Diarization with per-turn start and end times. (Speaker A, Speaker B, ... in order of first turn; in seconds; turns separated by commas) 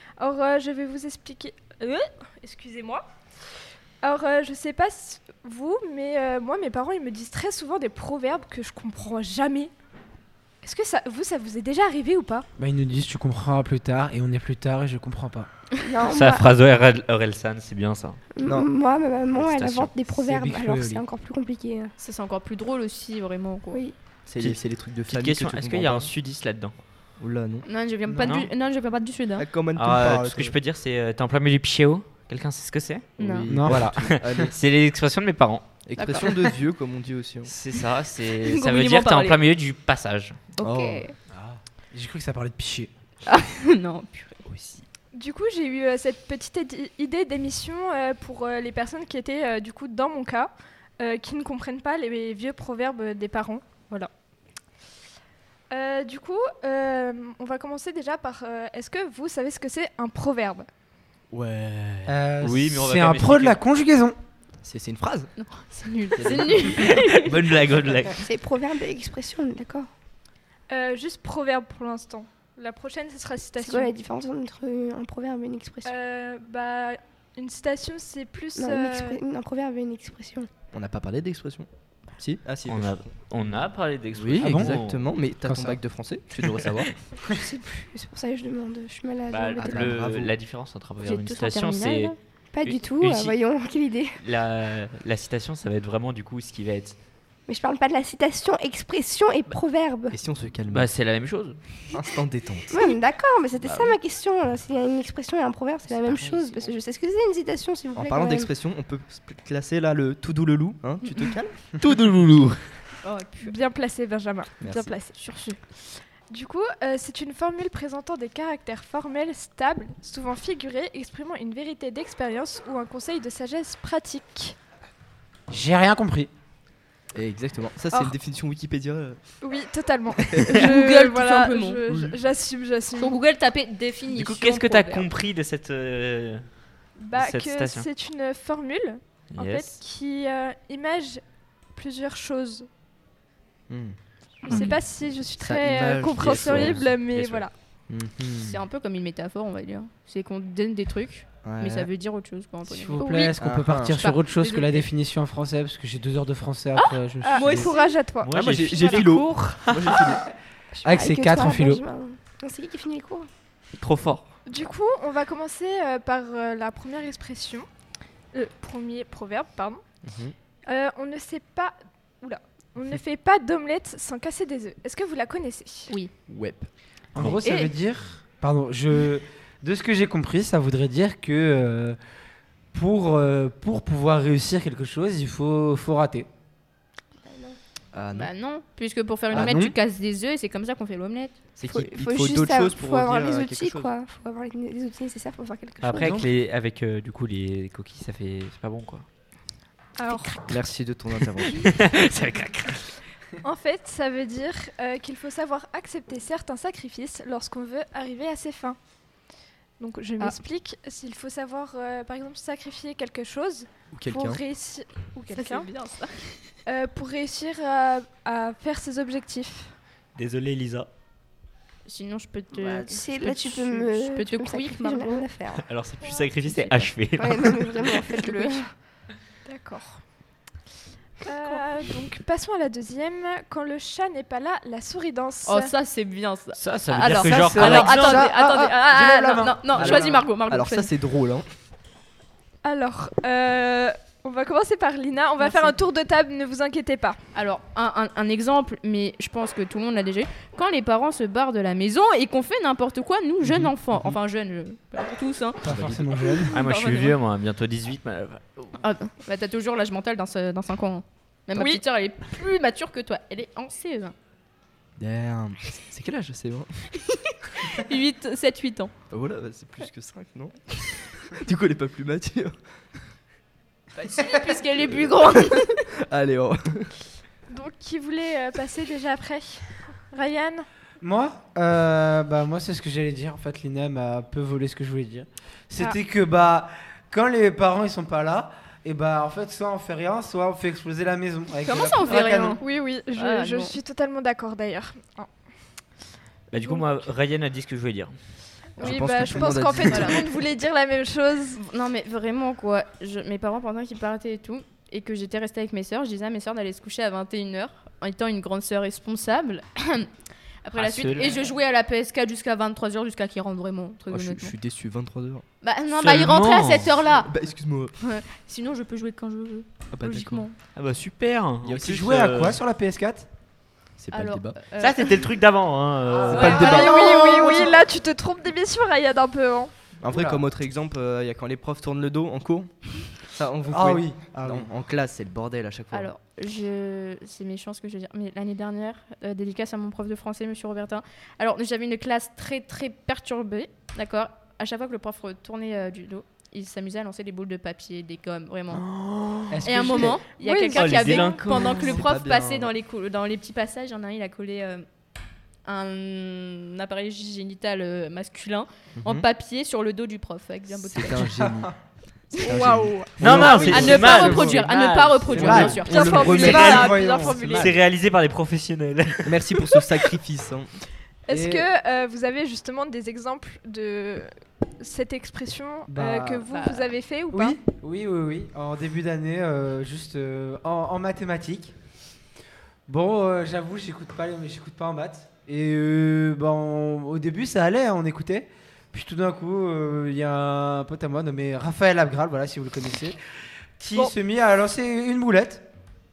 Speaker A: 0.2-3.1, Speaker A: 4.0-9.7, Speaker A: 10.6-12.5, Speaker B: 12.6-15.5, Speaker C: 15.8-16.5, Speaker D: 16.1-18.2, Speaker C: 18.4-21.9, Speaker D: 19.4-19.9, Speaker B: 20.2-21.0, Speaker E: 22.0-23.8, Speaker F: 24.2-26.1, Speaker D: 24.4-26.8, Speaker F: 27.2-27.7, Speaker E: 27.7-29.5, Speaker B: 28.1-28.4, Speaker D: 28.2-28.5, Speaker F: 29.4-30.6, Speaker D: 29.8-33.1, Speaker F: 33.2-34.6, Speaker E: 33.2-33.5, Speaker B: 33.5-34.5, Speaker D: 33.8-35.7, Speaker F: 35.8-37.5, Speaker E: 36.0-36.3, Speaker D: 37.5-40.4, Speaker E: 38.4-39.5, Speaker E: 40.6-41.1, Speaker F: 40.6-41.0, Speaker B: 41.3-42.9, Speaker E: 43.3-44.4, Speaker F: 44.5-44.8, Speaker A: 45.1-53.6, Speaker A: 55.7-60.7, Speaker F: 61.3-62.2, Speaker B: 62.1-64.2, Speaker D: 62.4-63.6, Speaker F: 64.6-65.3, Speaker E: 65.3-67.4, Speaker F: 66.1-66.9, Speaker D: 66.8-68.2, Speaker C: 68.2-69.9, Speaker A: 70.7-73.9, Speaker C: 73.6-76.0, Speaker A: 75.8-79.2, Speaker C: 78.5-80.6, Speaker F: 80.7-81.7, Speaker F: 82.2-86.9, Speaker D: 82.7-85.0, Speaker B: 84.4-84.8, Speaker B: 85.5-85.8, Speaker D: 86.4-86.8, Speaker C: 87.2-89.9, Speaker D: 89.3-93.4, Speaker F: 89.6-90.4, Speaker E: 91.0-92.1, Speaker C: 92.5-94.2, Speaker D: 94.2-97.0, Speaker C: 97.5-100.2, Speaker F: 100.1-100.9, Speaker D: 100.7-101.9, Speaker F: 101.9-102.8, Speaker C: 102.7-108.5, Speaker D: 103.6-104.0, Speaker D: 106.1-106.3, Speaker F: 108.0-111.8, Speaker D: 111.7-112.7, Speaker E: 113.0-113.5, Speaker A: 113.4-124.6, Speaker F: 114.6-115.0, Speaker B: 125.5-126.3, Speaker F: 127.1-129.5, Speaker A: 129.4-133.2, Speaker E: 130.5-131.8, Speaker F: 131.9-132.2, Speaker E: 132.9-135.1, Speaker D: 134.1-137.9, Speaker A: 137.0-142.7, Speaker D: 139.3-139.8, Speaker F: 143.7-143.9, Speaker A: 144.4-147.5, Speaker E: 144.5-144.8, Speaker F: 145.2-146.9, Speaker D: 146.2-147.5, Speaker F: 147.9-148.6, Speaker E: 148.5-153.4, Speaker F: 151.4-151.9, Speaker B: 152.7-157.7, Speaker F: 153.3-154.0, Speaker E: 153.9-154.9, Speaker E: 156.8-157.9, Speaker A: 157.2-159.6, Speaker D: 158.2-159.2, Speaker F: 158.3-160.2, Speaker C: 160.8-163.3, Speaker B: 160.8-161.8, Speaker D: 163.8-164.2, Speaker A: 164.5-167.7, Speaker A: 168.3-169.8, Speaker F: 170.0-170.3, Speaker A: 170.7-175.9, Speaker F: 176.3-176.7, Speaker B: 177.2-182.0, Speaker A: 177.4-177.7, Speaker B: 182.7-186.3, Speaker C: 187.2-187.6, Speaker F: 187.9-188.3, Speaker E: 188.1-191.4, Speaker B: 189.3-189.7, Speaker F: 191.6-193.9, Speaker C: 191.6-196.2, Speaker D: 195.8-199.1, Speaker A: 200.0-200.5, Speaker C: 200.1-200.4, Speaker F: 200.5-201.6, Speaker D: 201.5-203.0, Speaker A: 203.4-208.8, Speaker A: 209.8-215.7, Speaker F: 213.9-214.4, Speaker E: 215.3-216.6, Speaker A: 216.7-219.8, Speaker D: 220.2-220.9, Speaker E: 221.9-225.3, Speaker C: 222.6-225.7, Speaker D: 225.5-228.0, Speaker E: 226.5-226.9, Speaker C: 227.1-228.7, Speaker E: 228.1-228.6, Speaker A: 229.4-230.0, Speaker A: 231.2-235.8, Speaker E: 235.5-240.9, Speaker D: 236.5-238.2, Speaker B: 237.2-240.2, Speaker F: 239.7-241.5, Speaker A: 242.6-247.2, Speaker E: 245.4-245.8, Speaker E: 247.3-257.2, Speaker B: 255.6-256.6, Speaker D: 255.7-256.0, Speaker D: 256.5-258.8, Speaker E: 258.8-264.1, Speaker A: 261.5-261.8, Speaker F: 265.0-266.9, Speaker E: 267.7-268.9, Speaker F: 269.1-273.0, Speaker E: 273.9-275.8, Speaker F: 274.9-276.9, Speaker A: 277.5-280.6, Speaker B: 281.0-292.6, Speaker E: 291.6-293.8, Speaker A: 292.1-295.3, Speaker D: 296.5-298.1, Speaker A: 298.8-301.6, Speaker F: 298.8-300.2, Speaker E: 299.8-300.1, Speaker E: 301.6-310.1, Speaker E: 310.6-314.5, Speaker D: 310.7-311.3, Speaker F: 314.1-315.4, Speaker E: 315.6-317.3, Speaker D: 315.9-317.0, Speaker F: 317.1-317.9, Speaker E: 318.0-320.5, Speaker F: 319.9-320.4, Speaker D: 320.7-322.6, Speaker F: 321.6-322.1, Speaker B: 321.9-323.3, Speaker F: 324.0-324.6, Speaker E: 324.1-325.3, Speaker D: 324.8-326.6, Speaker B: 326.1-326.5, Speaker F: 326.3-327.1, Speaker E: 326.3-327.8, Speaker A: 326.3-329.7, Speaker F: 330.0-336.1, Speaker B: 330.0-330.4, Speaker B: 333.7-334.7, Speaker E: 335.9-348.8, Speaker B: 349.5-350.2, Speaker E: 349.6-354.8, Speaker A: 350.3-351.4, Speaker D: 350.7-352.0, Speaker F: 351.2-352.7, Speaker E: 355.6-361.3, Speaker F: 358.9-359.3, Speaker F: 360.8-361.7, Speaker F: 362.3-364.6, Speaker A: 362.4-364.0, Speaker D: 363.2-365.9, Speaker E: 363.5-367.3, Speaker B: 363.9-364.6, Speaker B: 365.2-367.8, Speaker F: 365.2-366.8, Speaker A: 365.7-367.7, Speaker D: 366.4-369.3, Speaker F: 369.2-370.7, Speaker A: 371.2-377.6, Speaker B: 371.3-371.6, Speaker B: 375.9-376.5, Speaker E: 376.5-376.9, Speaker B: 377.3-381.7, Speaker B: 382.9-393.2, Speaker B: 393.8-395.6